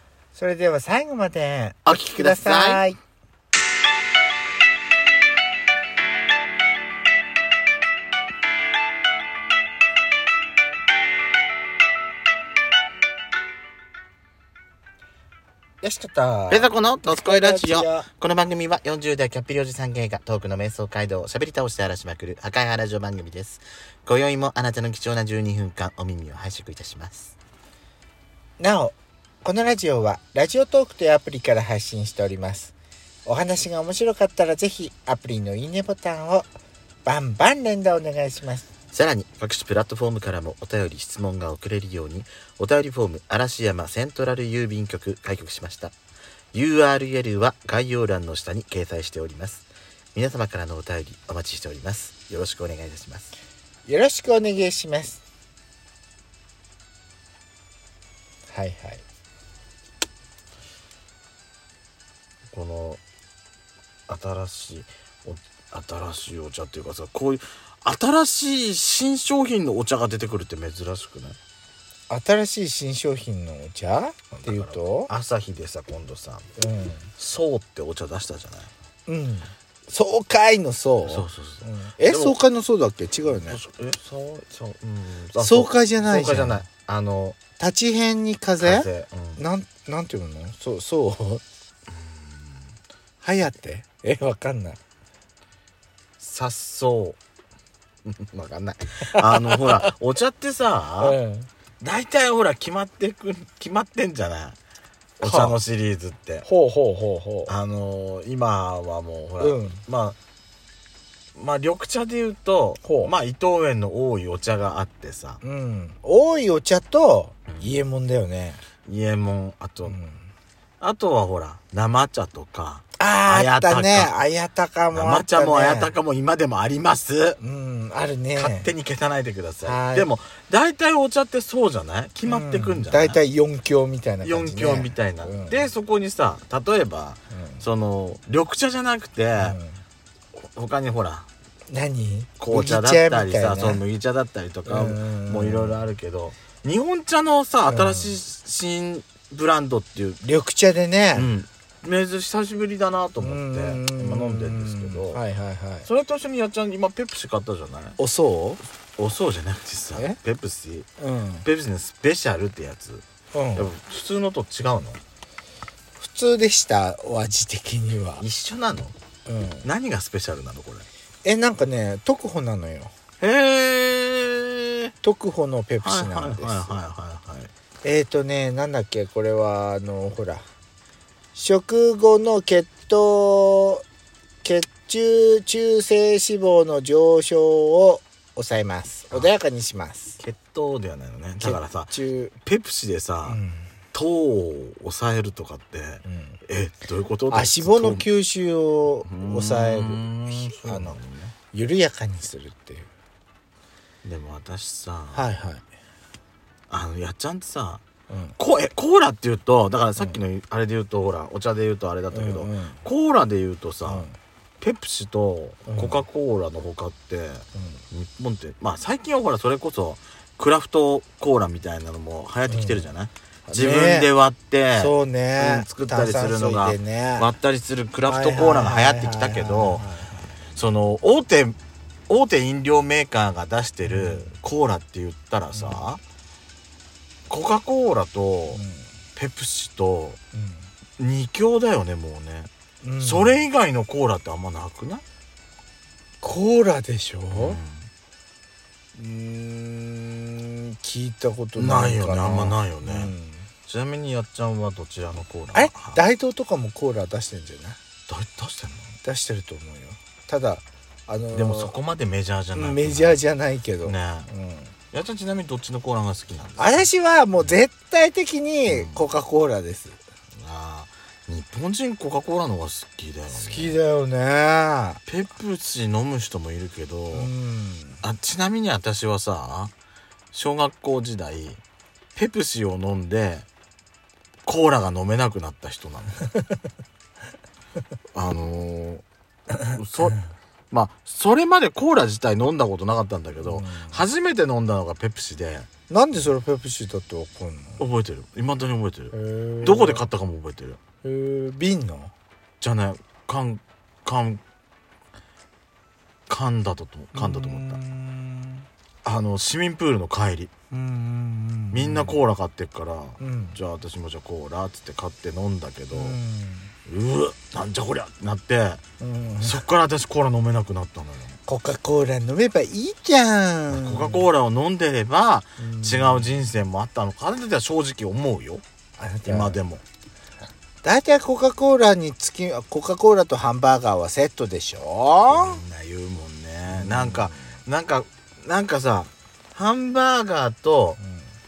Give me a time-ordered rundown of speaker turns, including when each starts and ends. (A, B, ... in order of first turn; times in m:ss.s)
0:00.3-0:03.0 A
0:01.8-0:02.8 B
0:15.8-0:18.1 A
0:16.5-0:27.3 B
0:28.6-0:32.7 A
0:33.2-0:36.5 A
0:37.0-0:38.7 A
0:38.9-0:45.9 B
0:46.5-0:53.3 B
0:53.8-0:55.2 A
0:58.5-0:59.0 A
1:02.5-1:03.0 B
1:04.1-1:11.4 B
1:12.1-1:15.1 A
1:14.3-1:16.5 B
1:16.6-1:17.0 A
1:17.2-1:18.7 B
1:19.1-1:23.6 A
1:21.0-1:22.4 B
1:23.3-1:27.4 B
1:25.4-1:26.6 A
1:27.6-1:31.4 A
1:28.6-1:29.4 B
1:31.9-1:32.6 B
1:33.2-1:34.8 A
1:36.2-1:37.2 B
1:38.0-1:41.2 B
1:39.1-1:39.9 A
1:41.0-1:41.5 A
1:41.8-1:44.6 B
1:45.2-1:45.6 A
1:45.2-1:46.5 B
1:46.4-1:47.5 A
1:47.5-1:50.2 B
1:49.4-1:49.8 A
1:51.4-1:55.4 B
1:52.8-1:53.1 A
1:55.4-1:58.6 A
1:58.8-2:00.0 B
1:59.8-2:00.2 A
2:00.8-2:04.1 B
2:03.0-2:05.9 A
2:04.9-2:07.4 B
2:07.4-2:08.7 A
2:08.4-2:13.2 B
2:09.6-2:10.1 A
2:12.2-2:15.7 A
2:14.2-2:19.6 B
2:17.3-2:17.6 A
2:19.4-2:19.8 A
2:20.4-2:21.3 B
2:21.7-2:23.8 A
2:22.4-2:30.2 B
2:24.6-2:25.8 A
2:27.7-2:28.2 A
2:30.2-2:31.3 A
2:31.1-2:35.2 B
2:33.2-2:35.9 A
2:35.8-2:38.0 B
2:38.0-2:38.6 A
2:39.0-2:40.9 B
2:41.0-2:41.4 A
2:41.4-2:45.0 B
2:43.3-2:43.7 A
2:46.0-2:48.2 A
2:48.2-2:48.9 B
2:49.3-2:49.6 A
2:49.6-2:50.9 B
2:51.2-2:52.9 A
2:53.2-2:54.9 B
2:55.0-2:56.8 A
2:55.8-2:57.5 B
2:57.8-3:00.4 A
3:01.3-3:03.8 A
3:04.4-3:10.2 A
3:10.2-3:13.4 B
3:11.4-3:12.3 A
3:13.2-3:13.7 A
3:13.9-3:18.1 B
3:16.0-3:16.4 A
3:17.3-3:21.0 A
3:19.0-3:21.4 B
3:21.5-3:22.9 A
3:24.0-3:25.3 B
3:25.1-3:25.6 A
3:26.7-3:27.8 B
3:28.1-3:28.4 A
3:28.4-3:34.1 B
3:32.1-3:32.8 A
3:33.8-3:34.2 A
3:34.6-3:49.9 B
3:35.7-3:36.0 A
3:37.5-3:37.8 A
3:42.5-3:42.8 A
3:43.5-3:44.1 A
3:44.8-3:47.3 A
3:48.1-3:50.3 A
3:50.5-3:51.6 B
3:52.1-3:56.0 B
3:53.8-3:54.3 A
3:55.5-3:55.8 A
3:57.3-3:58.6 B
3:58.5-3:58.8 A
3:59.1-4:00.2 B
4:00.3-4:00.6 A
4:01.0-4:05.0 B
4:02.8-4:03.4 A
4:06.2-4:07.6 A
4:07.3-4:07.9 B
4:08.9-4:13.5 A
4:11.6-4:13.1 B
4:13.6-4:16.0 B
4:15.5-4:17.8 A
4:18.1-4:18.9 B
4:19.0-4:21.7 A
4:21.3-4:23.2 B
4:22.5-4:24.7 A
4:23.8-4:24.3 B
4:24.9-4:26.9 B
4:26.6-4:30.0 A
4:28.7-4:29.1 B
4:30.4-4:33.8 B
4:33.3-4:35.0 A
4:35.0-4:37.3 B
4:37.1-4:38.0 A
4:38.0-4:39.7 B
4:40.3-4:41.6 B
4:42.1-4:43.4 B
4:44.4-4:46.2 B
4:48.1-4:49.0 B
4:49.6-4:55.7 B
4:53.4-4:54.0 A
4:55.9-4:57.8 A
4:57.8-5:00.8 B
4:59.1-5:00.0 A
5:01.0-5:02.1 A
5:02.6-5:04.4 B
5:06.3-5:07.8 B
5:07.1-5:08.7 A
5:09.0-5:10.5 B
5:10.7-5:12.2 A
5:11.7-5:16.2 B
5:13.2-5:13.6 A
5:15.9-5:16.7 A
5:16.8-5:18.8 B
5:19.0-5:19.6 A
5:19.4-5:21.4 B
5:21.5-5:24.2 A
5:23.7-5:28.6 B
5:25.6-5:26.5 A
5:29.0-5:29.6 A
5:29.2-5:29.8 B
5:30.8-5:35.6 A
5:35.3-5:41.0 B
5:36.7-5:37.4 A
5:41.0-5:41.2 A